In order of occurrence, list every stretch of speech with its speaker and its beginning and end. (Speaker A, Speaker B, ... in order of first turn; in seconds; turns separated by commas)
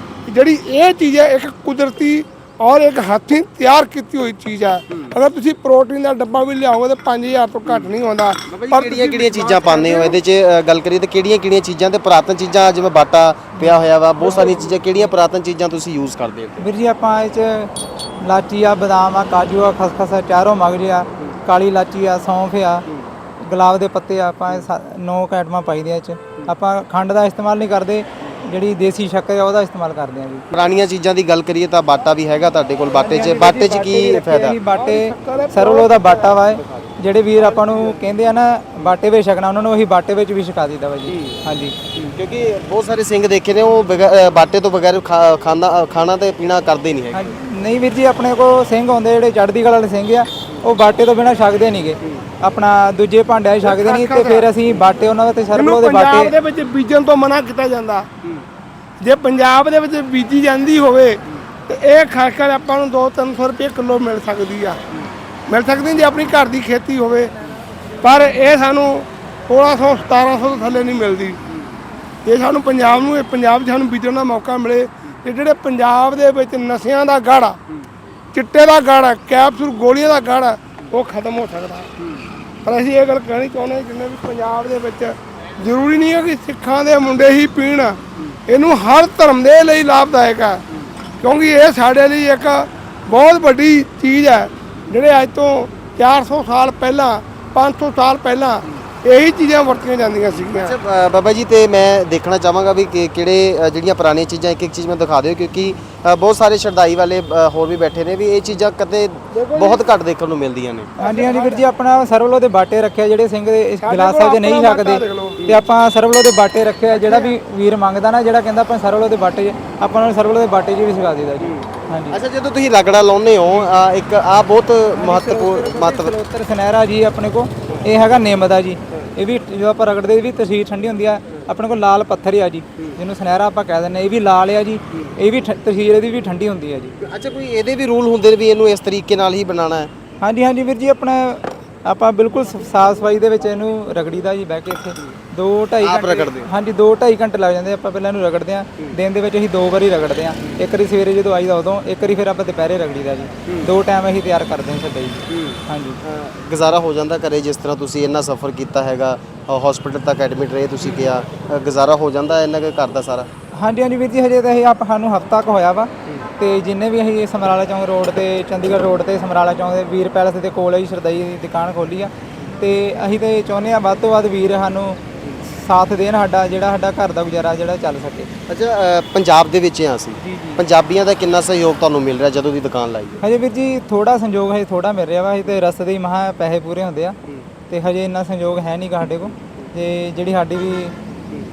Speaker A: 0.3-10.2, Speaker B: 7.7-7.9, Speaker B: 8.5-16.6, Speaker C: 13.6-14.7, Speaker C: 16.6-22.9, Speaker C: 23.4-30.5, Speaker B: 30.5-34.6, Speaker C: 33.0-41.8, Speaker A: 34.7-36.4, Speaker B: 41.1-41.4, Speaker B: 42.0-47.4, Speaker C: 47.1-56.3, Speaker A: 53.6-54.5, Speaker A: 55.5-58.1, Speaker A: 59.0-64.8, Speaker A: 65.5-67.3, Speaker A: 68.0-71.4, Speaker A: 72.2-77.6, Speaker A: 78.3-81.9, Speaker A: 82.6-90.6, Speaker A: 91.2-100.8, Speaker B: 100.3-110.9, Speaker A: 109.3-109.9, Speaker A: 111.0-111.7, Speaker C: 111.0-122.2, Speaker A: 113.8-115.4, Speaker A: 116.9-117.3, Speaker B: 121.4-126.1, Speaker C: 125.0-137.0, Speaker B: 137.0-139.9, Speaker C: 140.2-156.0, Speaker B: 145.8-146.5, Speaker B: 155.3-163.3, Speaker C: 160.9-161.1, Speaker C: 163.6-178.3, Speaker B: 178.5-183.2, Speaker C: 180.2-180.6, Speaker C: 183.2-187.2, Speaker C: 187.7-190.9